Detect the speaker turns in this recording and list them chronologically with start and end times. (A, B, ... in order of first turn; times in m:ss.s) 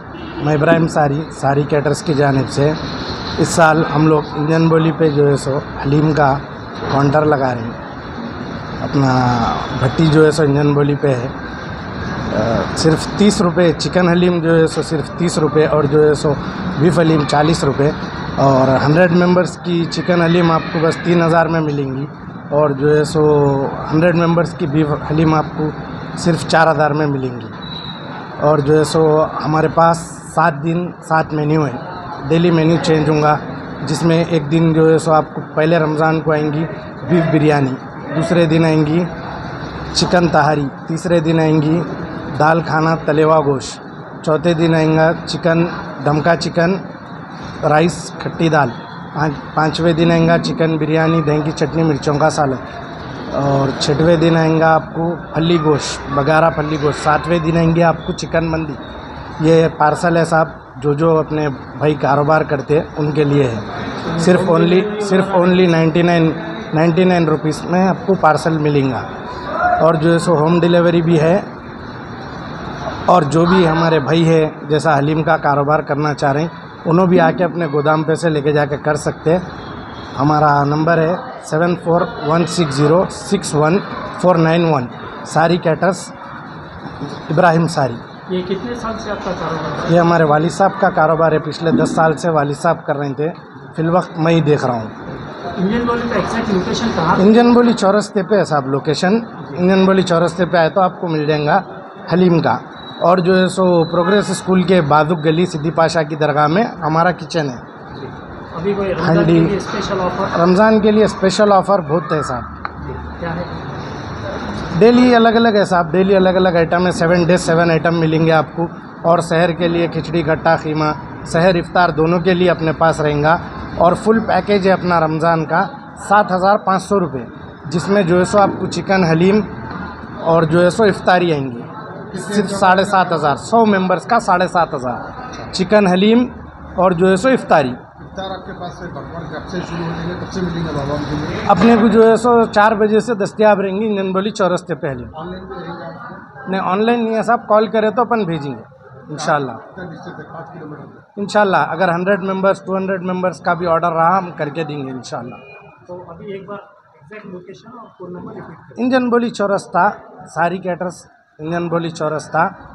0:00.4-0:02.8 A
0:03.4-0:07.8 A
0:08.8-0:11.3 A
0:12.3-0:27.5 A
0:28.4-0:39.1 A
0:39.9-0:46.8 A
0:47.6-0:52.6 A
0:53.3-0:58.8 A
0:59.4-1:03.6 A
1:04.1-1:05.9 B
1:04.2-1:09.1 A
1:09.8-1:11.5 A
1:13.1-1:19.4 A
1:20.1-1:26.1 A
1:27.0-1:28.0 A
1:28.3-1:30.2 B
1:29.8-1:34.9 A
1:35.5-1:37.5 B
1:37.1-1:47.6 A
1:48.0-1:50.4 B
1:49.0-1:49.6 A
1:50.3-1:52.5 A
1:52.8-1:53.6 B
1:54.7-2:09.5 A
2:10.2-2:17.8 A
2:12.1-2:13.2 C
2:18.0-2:21.4 C
2:21.4-2:25.1 A
2:25.1-2:26.2 C
2:26.4-2:29.6 A
2:29.1-2:31.0 C
2:31.2-2:35.4 A
2:35.8-2:38.8 B
2:38.8-2:42.5 A